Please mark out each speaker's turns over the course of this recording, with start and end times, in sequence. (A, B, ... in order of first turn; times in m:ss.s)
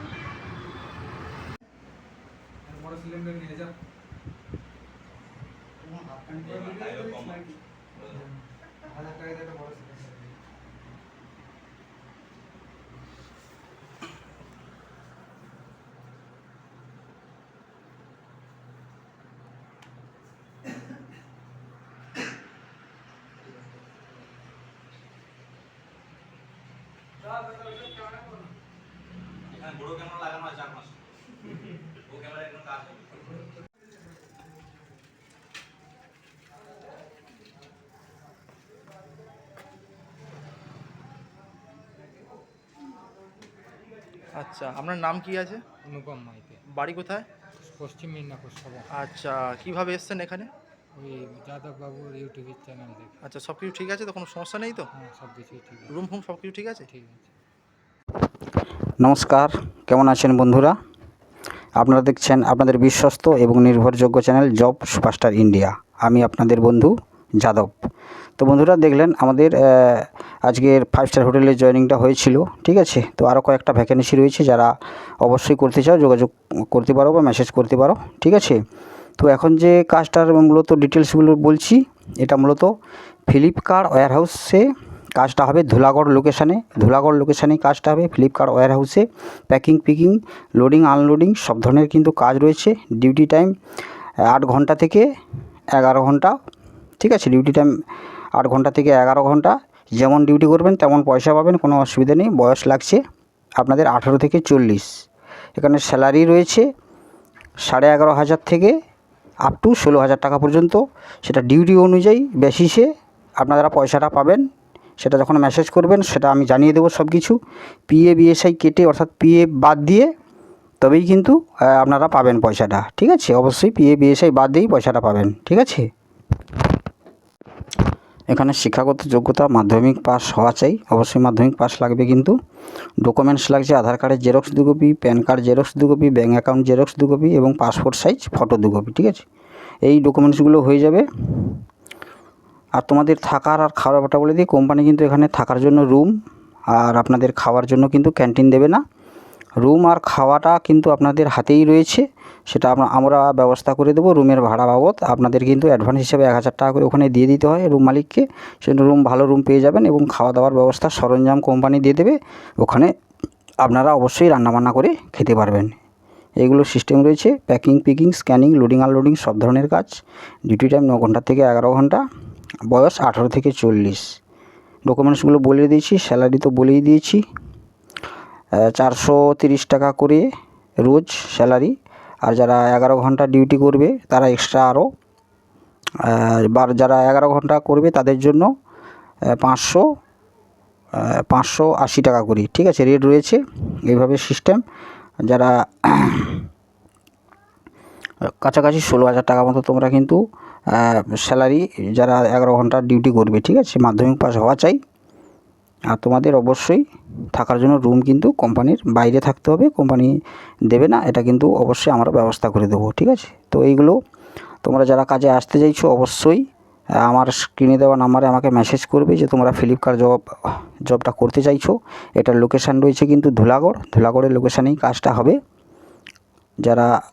0:02.7-0:03.7 A
0:05.9-0:06.4 A
0:06.4-0:08.2 B
0:08.9-0:10.3 A
0:29.5-0:31.0 B
0:32.1-0:33.1 B
0:44.4-0:45.6 C
0:45.8-0:46.6 A
0:46.7-0:47.3 C
0:47.6-0:48.9 A
0:49.0-0:50.5 C
0:51.0-0:53.2 A
0:53.2-0:54.9 C
0:54.9-0:55.9 A
0:55.9-0:56.9 C
0:56.9-0:57.3 A
0:59.0-1:00.8 D
1:01.8-1:18.6 D
1:19.2-1:22.7 D
1:23.3-1:33.5 D
1:34.3-1:35.1 D
1:35.7-1:36.4 D
1:37.0-1:37.7 D
1:38.3-1:43.0 D
1:43.6-1:45.0 D
1:45.6-1:46.7 D
1:47.6-1:48.8 D
1:49.5-1:54.5 D
1:55.0-2:00.1 D
2:00.8-2:05.9 D
2:08.3-2:12.4 D
2:13.0-2:19.2 D
2:19.8-2:21.6 D
2:22.8-2:26.1 D
2:26.7-2:28.8 D
2:29.6-2:42.9 D
2:43.6-2:45.8 D
2:46.4-2:52.0 D
2:52.7-2:54.2 D
2:54.8-2:57.3 D
2:58.6-3:00.3 D
3:00.8-3:04.9 D
3:06.0-3:08.5 D
3:09.3-3:09.8 D
3:11.0-3:14.6 D
3:15.3-3:16.5 D
3:18.3-3:24.8 D
3:25.9-3:34.0 D
3:34.6-3:36.4 D
3:37.0-3:45.4 D
3:46.6-3:46.9 D